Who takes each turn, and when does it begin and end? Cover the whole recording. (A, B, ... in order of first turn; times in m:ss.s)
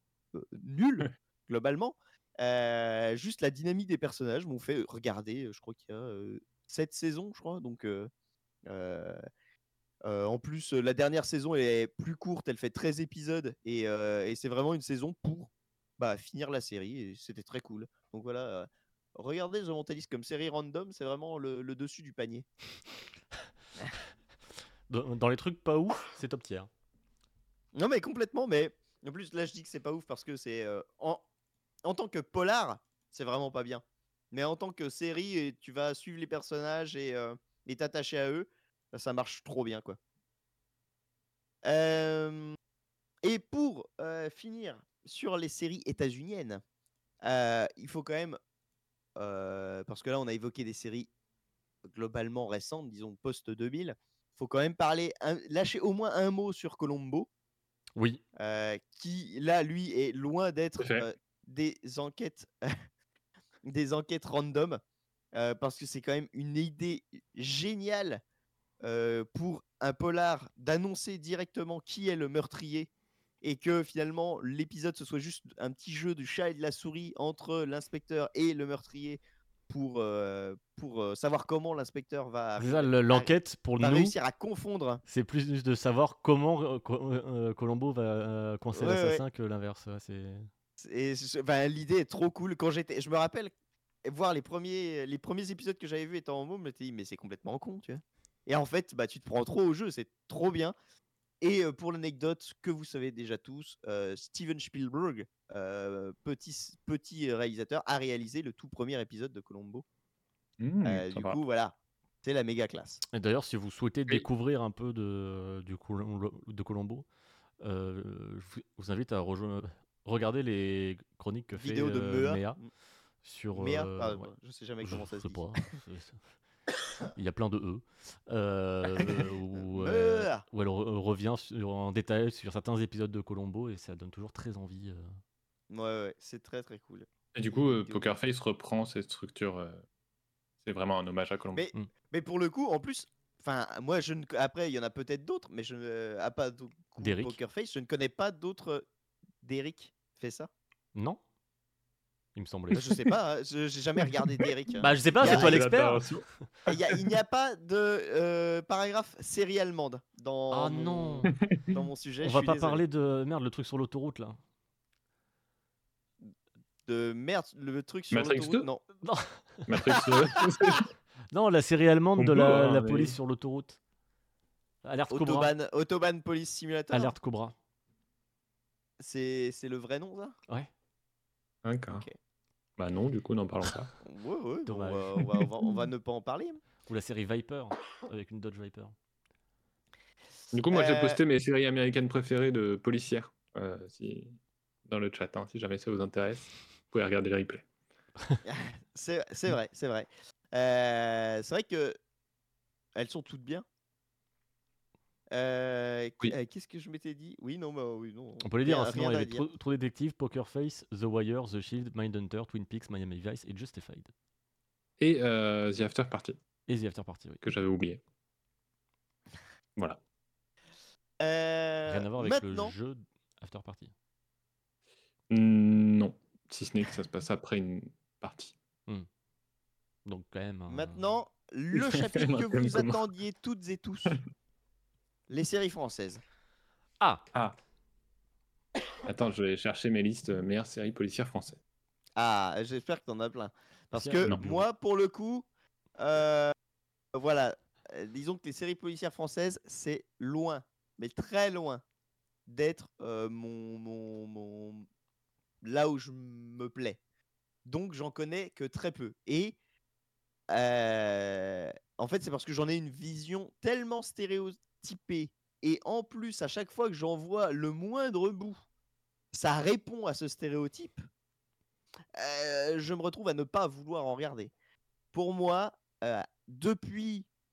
0:00.3-0:08.1 A
0:08.7-0:09.2 A
0:10.0-0:22.5 A
0:24.9-0:26.7 B
0:27.7-0:31.2 A
0:31.8-0:40.0 A
0:41.6-0:42.6 A
0:43.2-0:46.6 A
0:47.2-0:48.4 A
0:49.2-0:51.1 A
0:51.8-0:57.3 A
0:58.0-0:58.2 B
0:58.4-1:02.8 A
1:00.8-1:01.0 C
1:03.6-1:04.8 A
1:05.3-1:08.2 A
1:08.8-1:12.9 A
1:13.4-1:25.0 A
1:22.6-1:24.1 B
1:25.1-1:30.5 B
1:28.7-1:29.2 A
1:30.8-1:33.5 A
1:34.0-1:40.7 A
1:41.4-1:49.8 A
1:50.6-1:51.4 C
1:50.8-1:53.0 A
1:53.1-1:57.0 B
1:57.6-2:02.6 B
2:01.5-2:02.7 A
2:03.2-2:04.3 B
2:03.5-2:05.5 A
2:04.8-2:06.2 B
2:07.1-2:15.1 B
2:09.6-2:10.4 A
2:15.7-2:17.1 A
2:17.3-2:19.8 C
2:20.6-2:21.7 C
2:21.5-2:28.8 A
2:27.0-2:27.4 B
2:29.4-2:30.5 A
2:30.9-2:31.2 B
2:32.4-2:32.9 B
2:32.7-2:35.6 A
2:34.8-2:36.4 B
2:35.2-2:37.0 C
2:36.7-2:42.8 A
2:40.5-2:41.3 B
2:41.3-2:41.6 C
2:42.2-2:44.4 B
2:46.9-2:48.8 A
2:48.1-2:48.7 C
2:49.0-2:50.0 B
2:49.7-2:50.9 C
2:49.9-2:50.4 A
2:51.3-2:53.8 B
2:52.2-2:53.2 C
2:54.8-2:55.5 B
2:55.1-2:57.1 A
2:56.9-2:57.6 B
2:59.0-3:00.3 A
3:01.6-3:02.1 C
3:02.8-3:03.9 C
3:04.0-3:06.6 A
3:04.6-3:05.3 B
3:06.9-3:09.0 B
3:10.5-3:14.4 C
3:10.7-3:11.2 A
3:14.9-3:17.6 C
3:18.4-3:22.0 A
3:23.0-3:23.6 A
3:25.3-3:29.4 A
3:28.4-3:34.1 B
3:35.0-3:36.4 C
3:36.7-3:37.4 B
3:37.4-3:38.0 C
3:41.2-3:42.7 A
3:41.9-3:43.9 B
3:45.3-3:48.5 C
3:50.0-3:51.1 B
3:50.7-3:54.2 A
3:51.7-3:53.0 C
3:55.3-3:56.2 A
3:59.0-4:01.6 C
4:02.2-4:05.4 A
4:03.9-4:04.6 B
4:06.0-4:06.5 A
4:07.1-4:11.8 A
4:12.5-4:14.9 A
4:15.6-4:17.0 A
4:17.6-4:19.6 A
4:20.5-4:28.6 A
4:29.3-4:31.0 A
4:32.2-4:34.5 A
4:35.1-4:37.3 A